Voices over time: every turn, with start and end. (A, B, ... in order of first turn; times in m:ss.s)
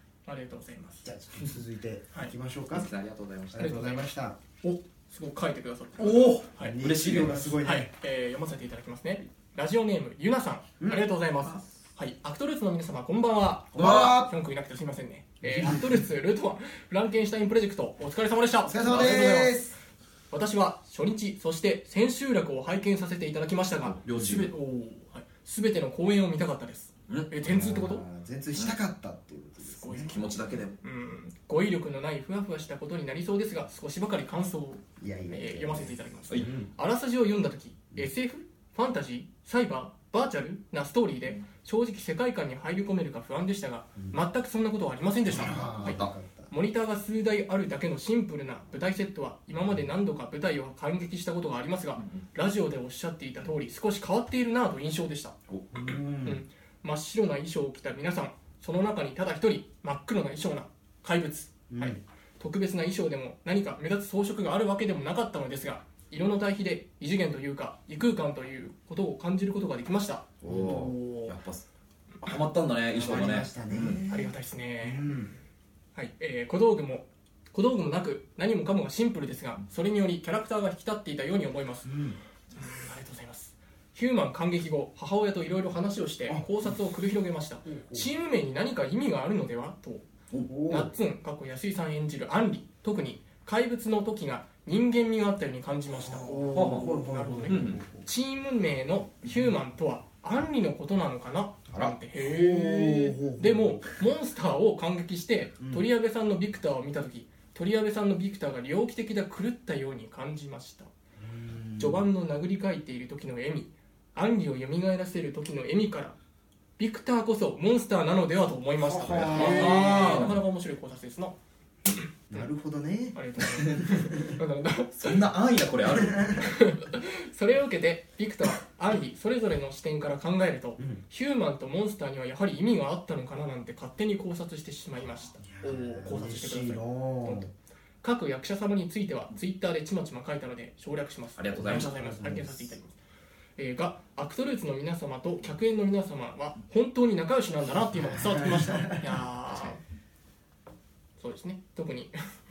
0:00.2-0:01.0 A
0:01.0-0:02.9 B
0:02.7-0:03.7 C
0:03.5-0:04.4 B
0:03.6-0:04.1 A
0:04.6-0:06.8 A
0:06.0-0:07.6 C
0:06.6-0:07.9 B
0:07.6-0:19.6 A
0:10.8-0:11.0 B
0:13.7-0:14.3 B
0:13.8-0:14.2 C
0:15.4-0:16.0 B
0:18.6-0:19.7 B
0:18.9-0:19.4 C
0:20.3-0:28.0 A
0:23.8-0:24.5 C
0:27.4-0:30.1 B
0:29.6-0:55.3 A
0:30.0-0:30.8 C
0:35.0-0:36.7 B
0:45.3-0:46.5 B
0:45.3-0:46.1 C
0:55.5-0:55.8 C
0:55.7-0:56.4 B
0:56.2-1:11.3 A
1:01.7-1:02.0 B
1:10.4-1:11.6 C
1:10.5-1:10.9 B
1:12.2-1:14.0 C
1:13.0-1:15.3 B
1:14.1-1:15.1 A
1:15.9-1:22.0 A
1:21.8-1:22.2 B
1:22.5-1:30.0 A
1:26.3-1:26.7 B
1:27.7-1:28.1 B
1:30.5-1:30.9 B
1:30.6-1:50.9 A
1:35.9-1:38.0 B
1:36.5-1:36.9 C
1:37.5-1:37.8 C
1:42.2-1:43.8 B
1:45.6-1:45.9 B
1:51.2-1:52.0 B
1:51.8-1:56.2 A
1:56.8-2:01.4 A
1:58.8-2:00.4 B
1:59.0-2:00.4 C
2:01.9-2:02.4 A
2:02.3-2:04.4 B
2:03.1-2:05.2 A
2:04.9-2:06.4 C
2:06.0-2:06.4 B
2:06.3-2:17.5 A
2:15.5-2:17.5 B
2:18.0-2:23.0 A
2:21.4-2:21.9 C
2:21.5-2:22.7 B
2:23.6-2:29.8 A
2:27.7-2:29.2 B
2:31.2-2:32.2 A